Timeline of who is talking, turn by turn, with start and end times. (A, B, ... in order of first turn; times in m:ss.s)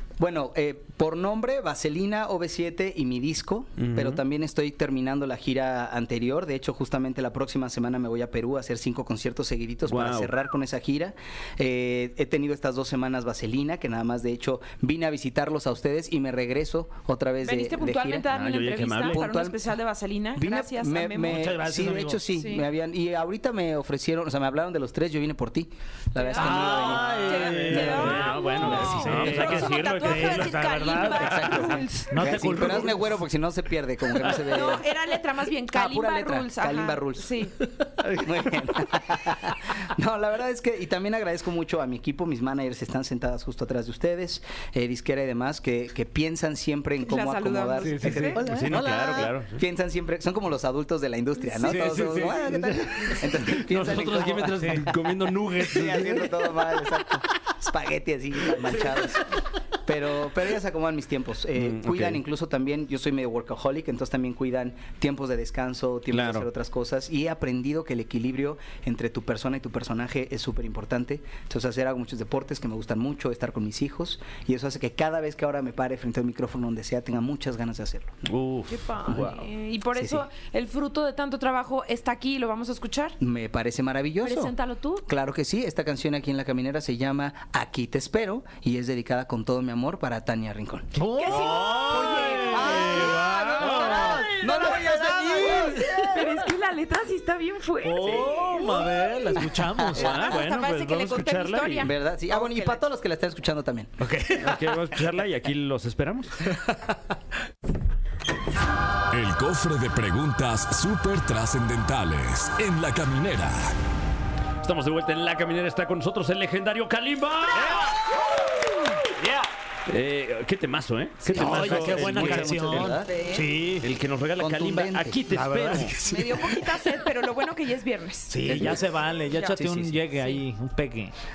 0:00.2-0:18.3 A
0:03.8-0:04.2 B
0:09.8-0:10.3 B
0:17.4-0:21.5 C
0:18.3-0:19.2 B
0:19.1-0:19.7 A
0:20.3-0:28.3 A
0:21.2-0:22.2 D
0:22.3-0:22.6 C
0:26.2-0:32.4 C
0:26.4-0:33.1 D
0:26.8-0:30.8 B
0:31.2-0:35.0 A
0:34.3-0:37.6 C
0:35.6-0:37.4 A
0:38.0-0:54.9 A
0:47.0-0:48.4 C
0:47.9-0:49.3 D
0:48.4-0:49.6 B
0:51.6-0:52.7 D
0:51.6-0:56.4 B
0:54.6-0:54.9 D
0:55.6-0:59.3 A
0:59.8-1:18.3 A
1:01.6-1:02.2 B
1:06.1-1:06.5 B
1:18.2-1:19.4 B
1:18.7-1:23.2 C
1:20.0-1:20.2 A
1:23.2-1:24.5 A
1:24.2-1:25.0 C
1:25.0-1:31.0 A
1:31.0-1:34.4 D
1:31.1-1:42.8 C
1:31.5-1:34.3 B
1:32.2-1:36.2 A
1:35.4-1:36.1 D
1:37.8-1:40.3 D
1:39.9-1:41.9 B
1:41.8-1:44.0 A
1:44.0-1:44.6 D
1:44.4-1:46.5 B
1:49.1-1:53.7 E
1:54.6-1:57.9 B
1:59.9-2:02.9 B
2:01.2-2:03.1 A
2:01.3-2:03.9 D
2:03.0-2:03.5 C
2:03.8-2:05.9 B
2:04.4-2:05.2 A
2:05.3-2:06.7 D
2:06.0-2:08.4 C
2:08.3-2:11.1 D
2:08.5-2:08.8 A
2:08.5-2:08.8 B
2:09.5-2:10.0 A